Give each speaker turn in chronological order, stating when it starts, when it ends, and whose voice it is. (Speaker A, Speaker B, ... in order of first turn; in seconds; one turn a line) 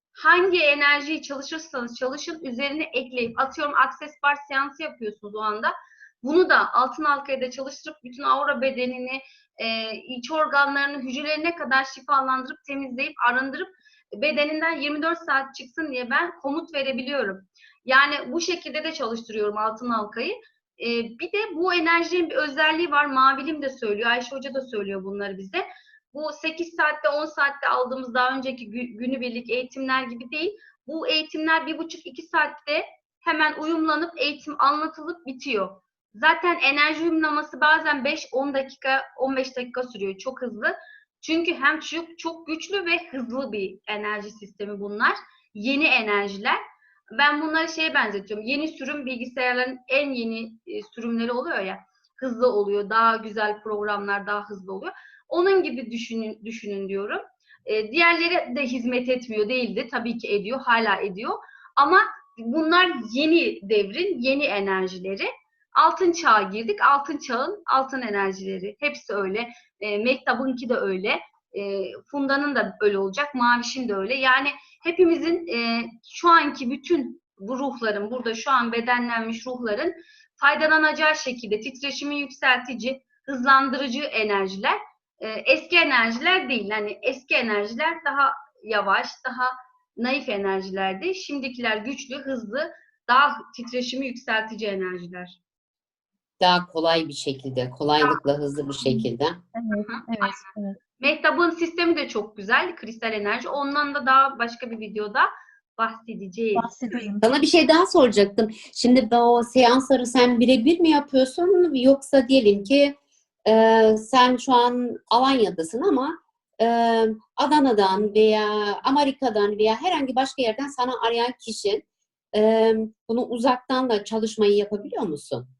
Speaker A: 0.1-46.6
Speaker A: 47.1-95.4
Speaker B: 96.4-99.4
Speaker C: 98.8-100.8
Speaker A: 99.7-100.4
Speaker A: 101.0-106.8
Speaker C: 106.5-107.2
Speaker B: 107.2-125.5